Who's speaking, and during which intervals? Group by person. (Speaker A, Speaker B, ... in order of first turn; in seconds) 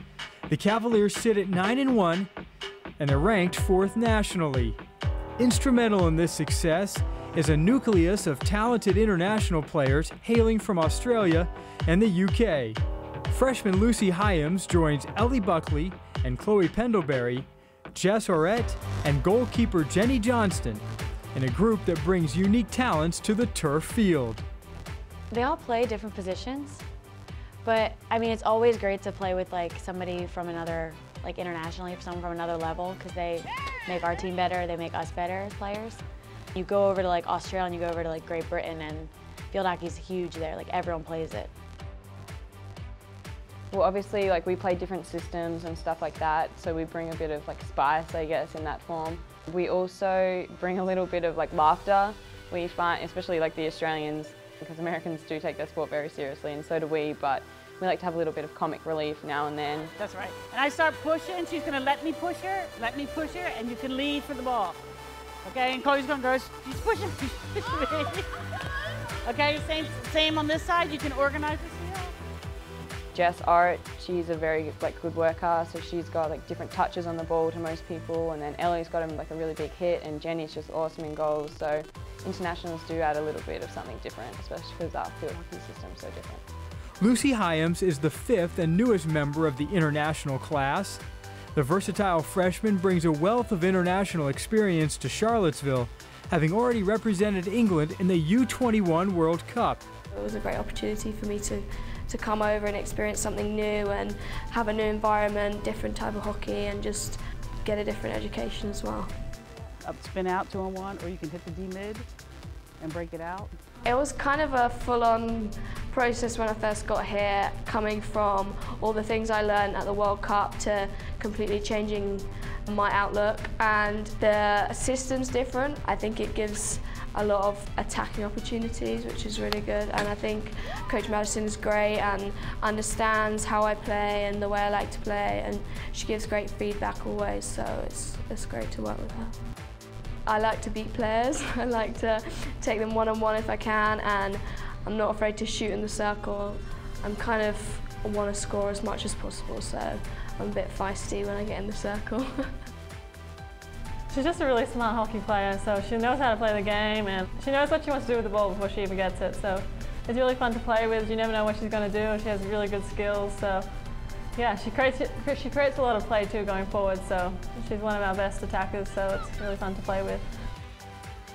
Speaker A: 0.5-2.3, 3.0-4.8, 5.4-20.8, 21.3-24.4, 87.0-91.0, 91.5-99.8
Speaker B: 25.3-26.8, 27.6-36.0, 36.5-41.5
Speaker C: 43.7-59.9, 73.1-86.4
Speaker D: 60.0-64.8, 65.4-68.3, 69.2-72.1, 109.8-112.0, 112.8-113.5
Speaker E: 100.1-109.1, 113.8-139.3, 140.2-152.5
Speaker F: 154.1-163.7, 164.3-170.3